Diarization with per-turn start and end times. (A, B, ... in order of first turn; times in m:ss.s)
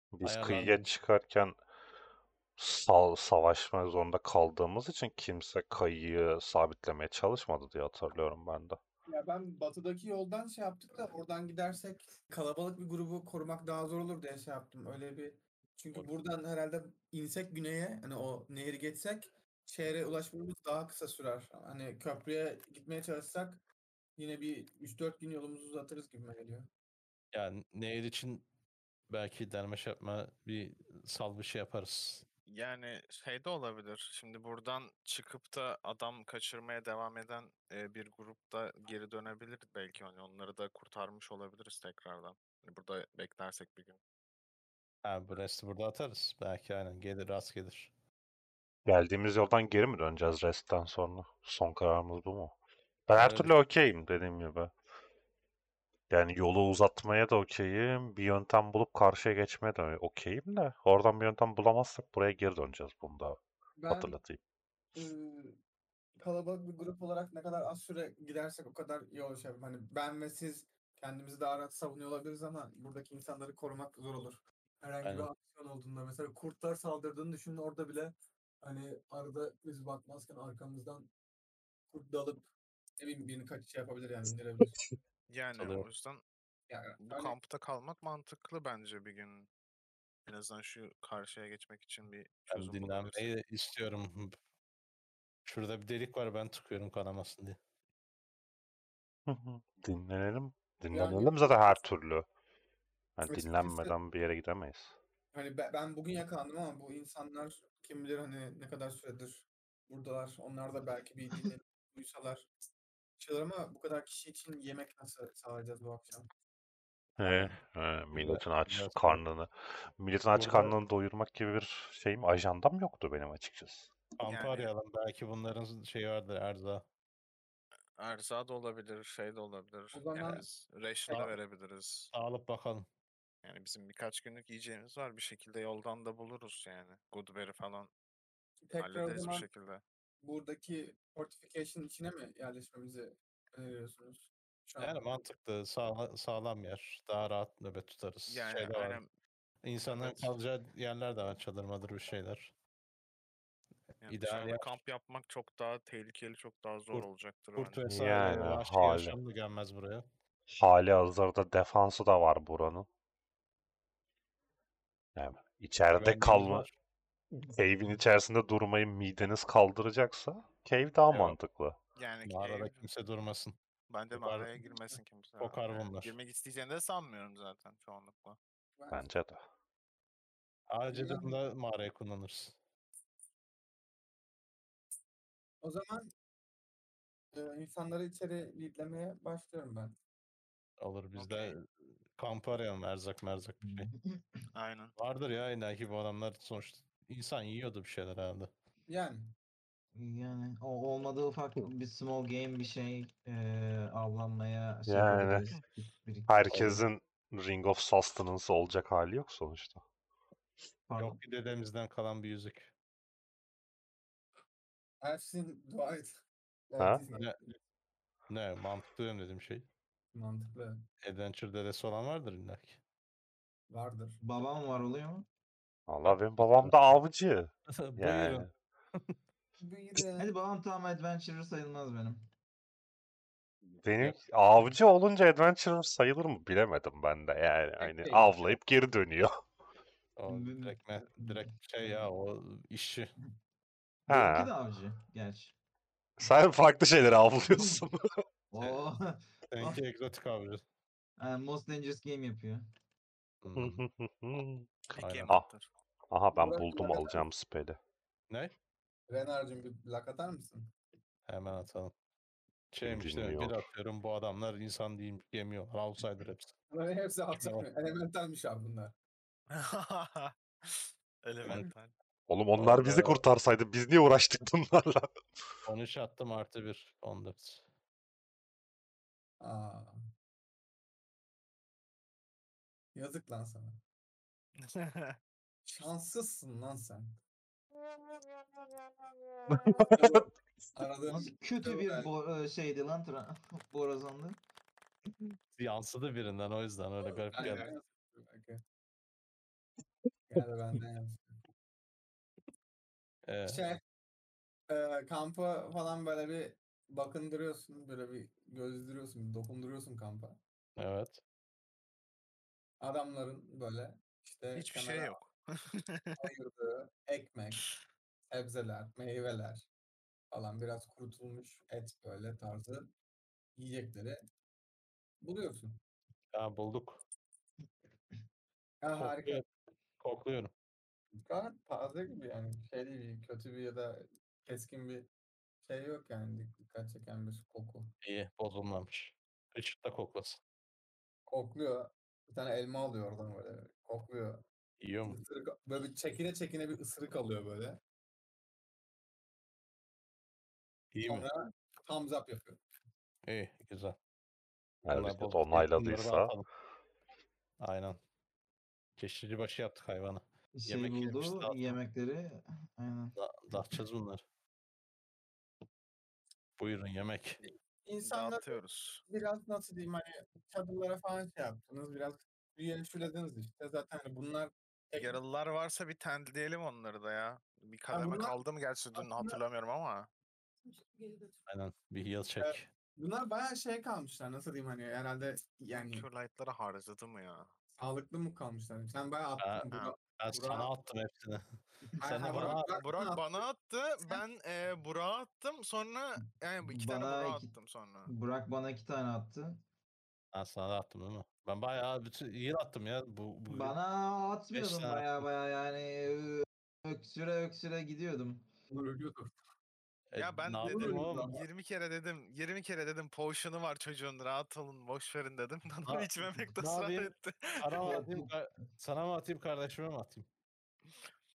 0:00.1-0:01.6 A
0:00.2-0:00.9 B
0:02.6-0:08.8 A
0:09.1-0:23.6 C
0:24.2-0:26.7 C
0:27.3-0:28.4 B
0:29.1-0:32.2 B
0:32.5-0:44.0 D
0:45.0-0:47.9 B
0:48.9-0:52.6 A
0:53.1-0:54.7 A
0:53.1-0:53.5 B
0:56.1-1:04.4 A
1:03.8-1:04.2 C
1:05.0-1:05.6 C
1:06.2-1:21.1 C
1:15.0-1:15.3 B
1:21.9-1:22.5 C
1:23.0-1:24.8 C
1:25.3-1:26.2 D
1:25.6-1:25.9 B
1:26.7-1:27.4 C
1:27.0-1:29.5 D
1:30.3-1:33.3 D
1:32.5-1:34.4 B
1:35.4-1:37.6 B
1:39.3-1:42.3 A
1:40.9-1:41.8 C
1:43.2-1:45.0 A
1:43.3-1:44.0 C
1:45.3-1:52.5 C
1:53.2-1:56.3 C
1:57.2-2:04.0 A
1:57.2-1:57.5 B
1:58.1-1:59.2 B
2:00.3-2:00.8 B
2:04.2-2:06.8 B
2:04.2-2:04.7 D
2:08.0-2:12.1 D
2:09.9-2:10.5 C
2:11.1-2:11.3 C
2:11.1-2:11.3 B
2:12.1-2:12.9 B
2:13.4-2:17.9 D
2:18.6-2:19.5 C
2:18.8-2:19.8 D
2:20.2-2:25.0 C
2:24.8-2:29.0 B
2:28.3-2:29.1 D
2:29.6-2:32.5 B
2:29.9-2:30.4 D
2:34.0-2:37.9 D
2:34.1-2:34.8 B
2:36.9-2:40.0 B
2:37.9-2:39.2 A
2:40.5-2:42.9 A
2:45.2-2:46.7 A
2:46.0-2:46.8 B
2:47.5-2:51.8 A
2:51.1-2:51.4 B
2:52.0-2:52.9 D
2:52.3-2:53.6 B
2:53.9-2:58.4 D
2:54.1-2:54.7 B
2:55.4-2:56.2 B
2:58.8-2:59.0 C
2:58.9-2:59.4 A
3:00.7-3:02.6 B
3:00.9-3:01.4 C
3:05.6-3:06.1 C
3:07.3-3:10.0 C
3:10.8-3:13.9 B
3:11.2-3:11.6 D
3:13.6-3:14.5 E
3:14.5-3:14.9 D
3:15.0-3:18.5 B
3:18.9-3:19.3 C
3:19.9-3:26.8 E
3:24.9-3:25.5 A
3:26.3-3:29.8 A
3:26.5-3:26.8 B
3:30.9-3:31.2 E
3:31.0-3:32.7 B
3:35.0-3:37.4 C
3:36.8-3:37.0 A
3:37.1-3:37.6 B
3:38.3-3:39.7 B
3:40.1-3:40.9 C
3:41.0-3:42.8 B
3:43.7-3:44.2 C
3:44.2-3:45.3 E
3:45.9-3:48.5 A
3:46.0-3:46.8 B
3:47.7-3:49.2 B
3:49.6-3:50.3 C
3:50.2-3:52.2 E
3:53.8-3:59.4 A
3:57.8-3:58.6 C
4:00.2-4:03.1 B
4:00.3-4:02.1 E
4:04.1-4:05.5 E
4:04.1-4:04.5 A
4:06.2-4:08.2 A
4:07.5-4:07.8 E
4:08.5-4:09.8 E
4:09.5-4:10.6 B
4:11.2-4:12.7 E
4:13.4-4:13.8 B
4:13.6-4:15.5 A
4:14.9-4:15.7 D
4:15.0-4:15.4 B
4:16.1-4:17.8 A
4:16.3-4:17.3 C
4:19.1-4:20.7 C
4:21.3-4:21.9 B
4:22.7-4:26.5 B
4:22.8-4:23.7 A
4:26.7-4:29.0 C
4:27.4-4:27.7 B
4:29.5-4:31.9 D
4:31.4-4:31.7 B
4:32.3-4:35.1 A
4:32.6-4:33.2 B
4:35.7-4:37.6 B
4:39.4-4:40.0 C
4:43.0-4:43.8 C
4:44.6-4:45.2 D
4:45.6-4:47.2 C
4:49.5-4:50.1 A
4:49.9-4:52.1 C
4:51.1-4:54.4 E
4:55.6-4:57.7 B
4:57.0-4:58.6 C
4:57.4-4:57.7 D
5:00.3-5:01.4 C
5:03.3-5:03.6 B
5:03.5-5:03.8 C
5:04.7-5:10.4 C
5:10.8-5:11.2 B
5:12.8-5:15.2 C
5:14.6-5:16.2 D
5:16.2-5:17.6 C
5:18.3-5:19.7 C
5:20.3-5:22.9 C
5:23.6-5:24.2 C
5:25.2-5:25.8 C
5:26.3-5:27.0 B
5:28.8-5:29.4 C
5:29.0-5:29.5 B
5:30.0-5:30.5 B
5:31.3-5:35.1 C
5:35.6-5:37.9 C
5:38.0-5:40.4 B
5:41.3-5:44.4 C
5:44.8-5:45.2 B
5:45.0-5:47.8 C
5:50.9-5:51.3 B
5:51.0-5:52.6 C
5:53.3-5:54.0 B
5:54.9-5:56.5 B
5:54.9-5:56.3 A
5:57.6-5:58.0 B
5:59.0-6:01.8 B
6:00.5-6:03.2 E
6:03.2-6:04.2 B
6:06.6-6:07.4 B
6:07.4-6:08.6 C
6:08.0-6:09.0 D
6:09.1-6:15.2 C
6:15.0-6:20.1 D
6:17.9-6:18.4 C
6:19.0-6:19.4 C
6:21.5-6:22.7 B
6:22.4-6:26.1 C
6:25.7-6:27.5 D
6:27.8-6:30.7 C
6:29.4-6:31.5 B
6:32.0-6:33.4 C
6:32.0-6:32.8 B
6:32.4-6:38.1 D
6:36.7-6:37.5 E
6:38.1-6:39.6 E
6:40.3-6:43.8 B
6:43.5-6:48.5 E
6:44.5-6:45.2 B
6:48.7-6:49.3 C
6:50.1-6:51.4 B
6:50.2-6:58.0 D
6:50.6-6:51.4 C
6:55.9-7:00.3 B
6:57.8-6:58.3 E